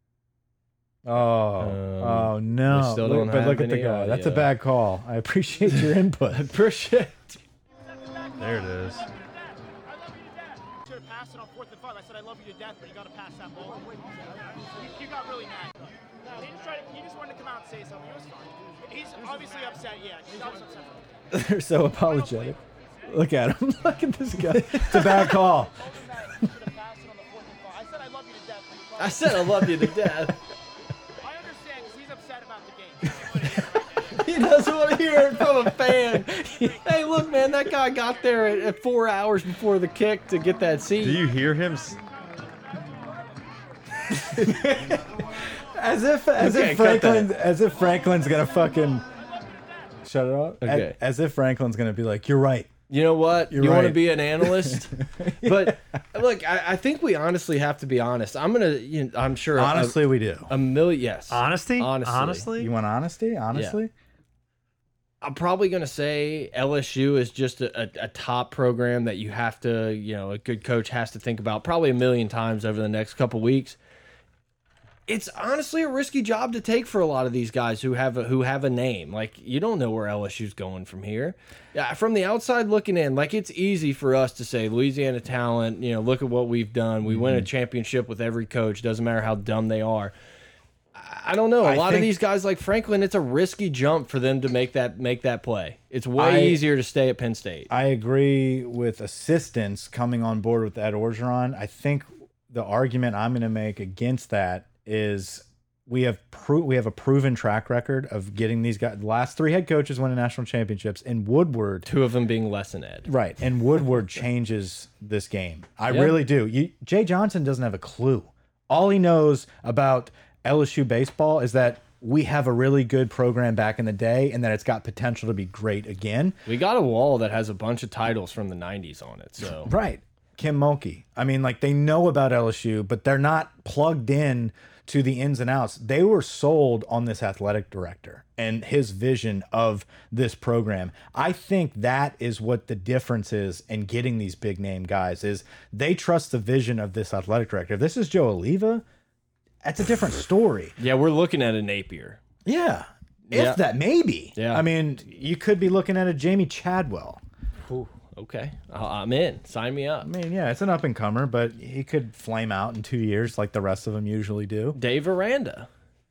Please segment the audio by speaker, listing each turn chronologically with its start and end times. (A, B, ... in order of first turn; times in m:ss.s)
0:01.0-0:06.5 A
0:01.6-0:04.5 B
0:06.3-0:07.4 B
0:08.4-0:09.1 C
0:10.7-0:21.1 D
0:21.3-0:26.6 A
0:22.3-0:22.6 D
0:24.6-0:25.2 B
0:25.8-0:29.4 D
0:29.0-0:30.4 B
0:29.4-0:30.3 A
0:31.2-0:34.2 D
0:34.1-0:41.2 B
0:35.7-0:36.8 A
0:41.0-0:42.0 C
0:44.1-0:49.0 A
0:46.4-0:47.3 B
0:50.0-0:52.7 A
0:50.6-0:51.0 B
0:52.9-1:02.5 B
0:53.5-0:56.0 A
0:59.6-1:00.5 A
1:01.3-1:02.7 C
1:02.6-1:03.9 A
1:05.2-1:13.8 B
1:15.1-1:30.1 B
1:27.1-1:27.5 A
1:30.9-1:37.7 B
1:31.6-1:32.1 A
1:36.2-1:36.6 A
1:37.7-1:51.9 A
1:51.9-1:53.1 B
1:53.1-2:06.4 A
1:55.9-1:56.2 B
2:06.5-2:09.7 B
2:09.4-2:28.8 A
2:29.6-2:30.8 A
2:30.8-2:32.2 B
2:32.4-2:37.2 A
2:33.3-2:33.6 B
2:34.4-2:34.6 B
2:37.7-2:40.1 B
2:40.0-2:44.8 A
2:44.7-2:45.7 B